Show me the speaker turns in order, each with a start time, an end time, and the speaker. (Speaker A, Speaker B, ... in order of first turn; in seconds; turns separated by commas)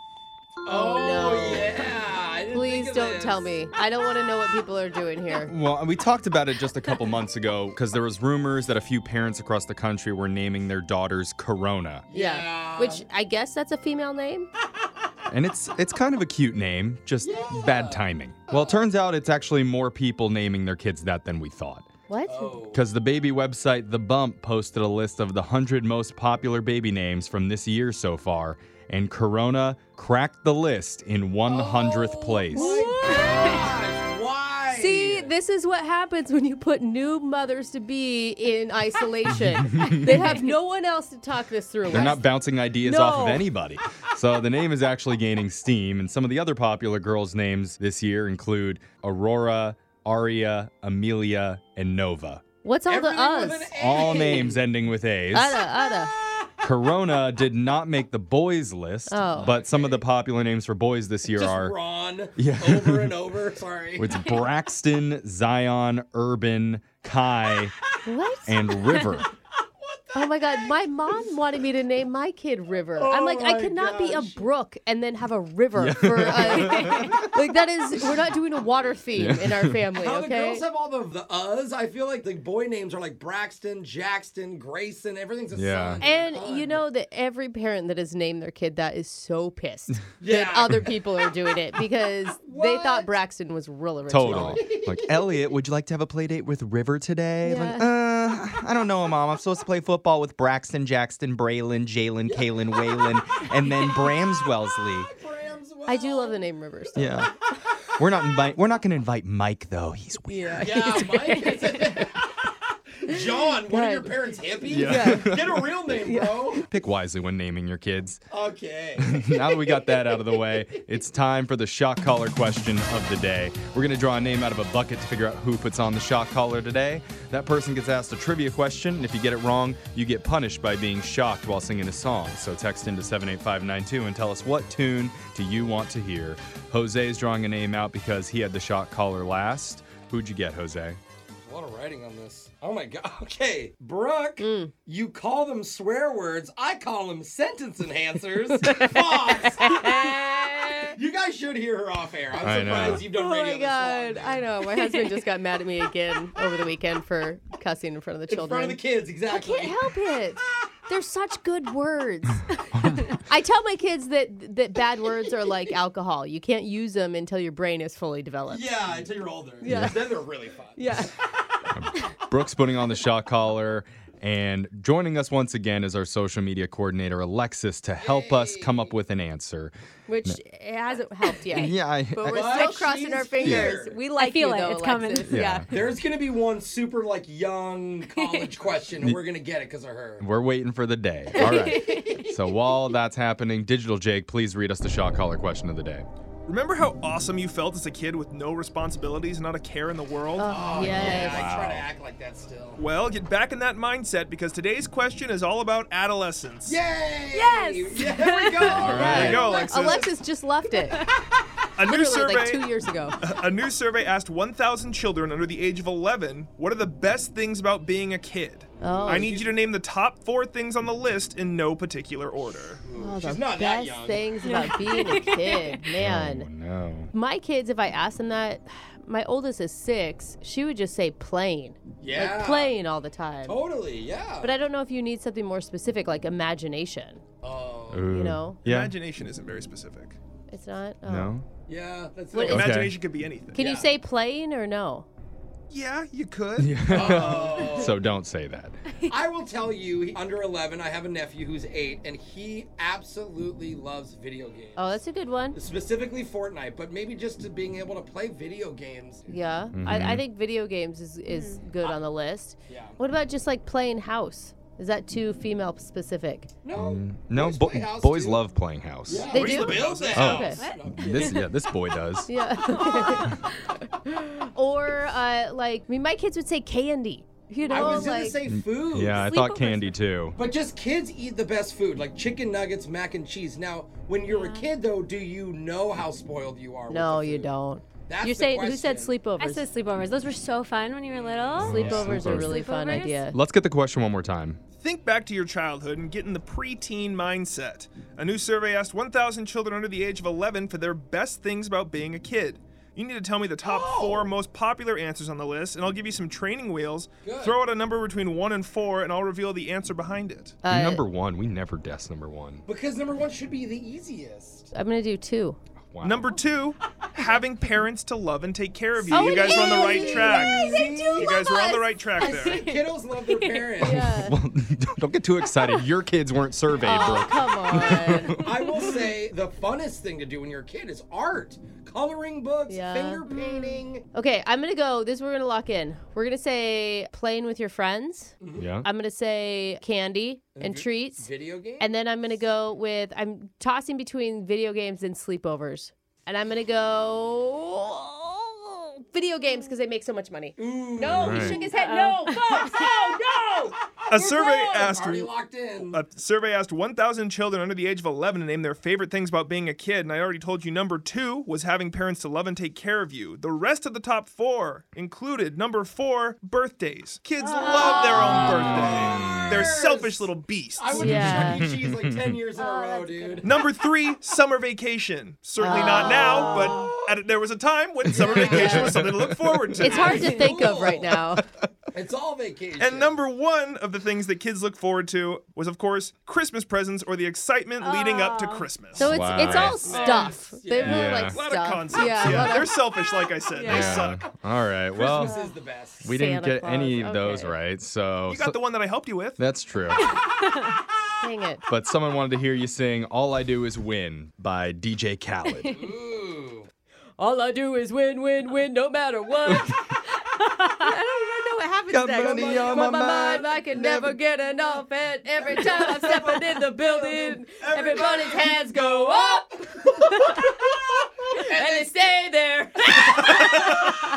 Speaker A: 0.6-3.5, Speaker B: 0.7-2.0, Speaker B: 2.5-5.5, Speaker C: 5.4-12.0, Speaker A: 12.1-13.0, Speaker B: 12.1-14.5, Speaker C: 15.3-21.9, Speaker A: 17.2-18.9, Speaker B: 22.1-22.6, Speaker A: 22.2-22.9, Speaker C: 22.7-32.7, Speaker A: 31.4-35.3, Speaker B: 32.5-33.6, Speaker D: 32.9-33.6, Speaker B: 34.7-42.2, Speaker C: 39.7-40.4, Speaker C: 41.9-52.4, Speaker B: 42.8-43.5, Speaker B: 52.6-54.4, Speaker A: 52.9-54.6, Speaker C: 53.8-55.6, Speaker B: 55.3-56.1, Speaker C: 56.6-61.8, Speaker B: 59.1-59.6, Speaker A: 59.3-60.1, Speaker A: 61.2-64.4, Speaker C: 62.4-63.2, Speaker C: 64.0-67.7, Speaker B: 68.0-68.6, Speaker C: 68.4-69.3, Speaker A: 68.8-71.3, Speaker B: 70.1-80.6, Speaker A: 72.9-74.5, Speaker C: 75.8-77.3, Speaker D: 76.8-77.3, Speaker C: 79.1-79.8, Speaker A: 79.9-86.8, Speaker C: 85.5-86.0, Speaker B: 86.0-94.6, Speaker A: 90.2-91.0, Speaker A: 92.4-93.1, Speaker C: 94.1-105.1, Speaker A: 94.2-95.1, Speaker B: 97.4-97.9, Speaker A: 102.2-103.1, Speaker A: 104.7-106.5, Speaker B: 105.9-107.5, Speaker C: 107.0-107.3, Speaker C: 107.9-111.1, Speaker B: 110.3-111.8, Speaker A: 110.6-112.5, Speaker A: 113.0-116.7, Speaker B: 113.1-114.2, Speaker C: 114.7-115.7, Speaker B: 114.7-115.3, Speaker B: 116.0-116.4, Speaker C: 116.5-118.2, Speaker A: 118.3-120.2, Speaker C: 119.0-141.0, Speaker A: 141.4-150.2, Speaker B: 144.4-144.7, Speaker B: 148.6-150.9, Speaker A: 150.8-154.5, Speaker C: 152.4-153.0, Speaker B: 152.5-158.8, Speaker D: 154.8-155.2, Speaker A: 158.3-159.8, Speaker B: 159.3-168.8, Speaker C: 162.7-163.1, Speaker A: 168.5-171.1, Speaker B: 169.6-170.2, Speaker B: 170.8-171.1, Speaker C: 171.7-179.7, Speaker A: 178.0-178.9, Speaker B: 180.1-185.7, Speaker C: 181.5-182.6, Speaker A: 182.2-184.0, Speaker C: 183.4-183.7, Speaker D: 184.1-185.5, Speaker C: 185.3-185.7, Speaker A: 185.7-190.2, Speaker D: 188.1-188.5, Speaker C: 190.2-196.1, Speaker D: 191.3-192.4, Speaker E: 196.5-200.5, Speaker B: 200.4-201.5, Speaker A: 200.5-202.8, Speaker C: 200.8-201.8, Speaker E: 202.8-206.8, Speaker A: 206.7-209.5, Speaker D: 207.3-210.0, Speaker C: 208.6-209.4, Speaker B: 208.8-211.0, Speaker E: 209.0-210.1, Speaker E: 211.8-212.6, Speaker B: 211.8-213.2, Speaker E: 213.2-222.8, Speaker A: 218.8-219.6, Speaker B: 218.8-219.3, Speaker A: 222.8-224.3, Speaker B: 223.0-226.5, Speaker D: 224.4-226.0, Speaker C: 226.0-227.1, Speaker B: 227.1-233.6, Speaker A: 232.0-232.7, Speaker A: 233.4-234.6, Speaker B: 234.4-237.2, Speaker A: 237.4-238.2, Speaker C: 237.9-238.9, Speaker B: 238.1-238.6, Speaker E: 238.6-240.2, Speaker B: 240.5-241.3, Speaker C: 241.1-241.4, Speaker A: 241.7-242.8, Speaker E: 242.3-243.6, Speaker C: 242.5-242.9, Speaker B: 243.5-245.1, Speaker A: 243.5-243.9, Speaker E: 245.7-247.7, Speaker C: 246.6-248.8, Speaker A: 246.9-248.0, Speaker A: 249.1-259.4, Speaker B: 254.8-255.6, Speaker B: 259.3-266.5, Speaker C: 259.7-260.2, Speaker D: 261.3-261.6, Speaker A: 262.7-263.0, Speaker A: 266.6-268.4, Speaker C: 266.8-269.3, Speaker A: 269.1-271.5, Speaker E: 269.3-270.3, Speaker B: 269.3-270.6, Speaker C: 270.1-272.3, Speaker D: 270.2-271.5, Speaker B: 272.3-278.4, Speaker D: 272.6-273.7, Speaker D: 277.6-278.2, Speaker A: 277.7-279.3, Speaker C: 278.4-280.4, Speaker D: 279.2-279.9, Speaker A: 280.4-287.5, Speaker D: 284.2-284.7, Speaker B: 286.9-289.6, Speaker A: 288.1-289.1, Speaker D: 289.4-293.3, Speaker C: 291.6-292.6, Speaker A: 291.6-292.3, Speaker B: 291.7-293.3, Speaker C: 293.3-294.6, Speaker E: 294.8-310.6, Speaker A: 303.6-304.3, Speaker A: 307.2-307.6, Speaker B: 310.6-311.0, Speaker C: 310.7-312.6, Speaker A: 312.7-314.7, Speaker B: 314.7-315.6, Speaker C: 315.9-316.4, Speaker E: 316.0-322.6, Speaker B: 319.1-321.9, Speaker D: 319.1-321.4, Speaker A: 320.0-321.3, Speaker D: 322.2-323.8, Speaker A: 322.2-324.2, Speaker B: 323.8-324.4, Speaker C: 323.8-328.5, Speaker B: 326.8-328.4, Speaker D: 327.0-327.4, Speaker A: 327.9-334.1, Speaker B: 332.7-333.2, Speaker B: 334.1-341.3, Speaker A: 338.4-338.7, Speaker C: 338.6-338.9, Speaker A: 340.6-341.9, Speaker B: 341.8-353.6, Speaker A: 350.6-351.8, Speaker C: 351.1-351.6, Speaker D: 351.4-352.9, Speaker A: 352.3-356.0, Speaker E: 354.1-355.3, Speaker E: 355.8-371.3, Speaker D: 367.4-369.4, Speaker A: 367.6-373.6, Speaker B: 367.8-368.5, Speaker C: 368.8-369.5, Speaker B: 370.9-371.6, Speaker C: 370.9-372.3, Speaker B: 372.6-373.5, Speaker D: 372.6-373.0, Speaker E: 373.4-380.3, Speaker B: 375.6-376.8, Speaker A: 375.7-377.1, Speaker D: 376.3-376.9, Speaker C: 378.1-380.0, Speaker A: 378.2-378.9, Speaker B: 378.4-378.8, Speaker B: 379.8-381.4, Speaker A: 379.8-381.2, Speaker D: 380.2-380.6, Speaker A: 381.9-383.2, Speaker E: 382.8-389.1, Speaker D: 387.8-388.7, Speaker B: 388.9-392.8, Speaker C: 389.0-389.8, Speaker A: 389.5-391.3, Speaker D: 389.8-390.4, Speaker C: 390.8-391.4, Speaker E: 391.2-394.2, Speaker C: 392.2-392.6, Speaker D: 393.6-393.9, Speaker B: 393.6-394.1, Speaker C: 393.6-395.3, Speaker A: 394.9-396.1, Speaker B: 395.2-395.5, Speaker C: 396.0-398.6, Speaker B: 396.1-397.6, Speaker E: 398.3-399.4, Speaker C: 399.4-400.1, Speaker D: 400.1-400.4, Speaker B: 401.2-401.6, Speaker C: 401.7-405.9, Speaker A: 405.7-406.7, Speaker B: 407.2-420.7, Speaker D: 410.6-411.0, Speaker C: 411.9-414.2, Speaker A: 412.2-412.8, Speaker A: 415.4-419.4, Speaker A: 421.4-421.9, Speaker B: 421.4-423.9, Speaker E: 423.1-424.0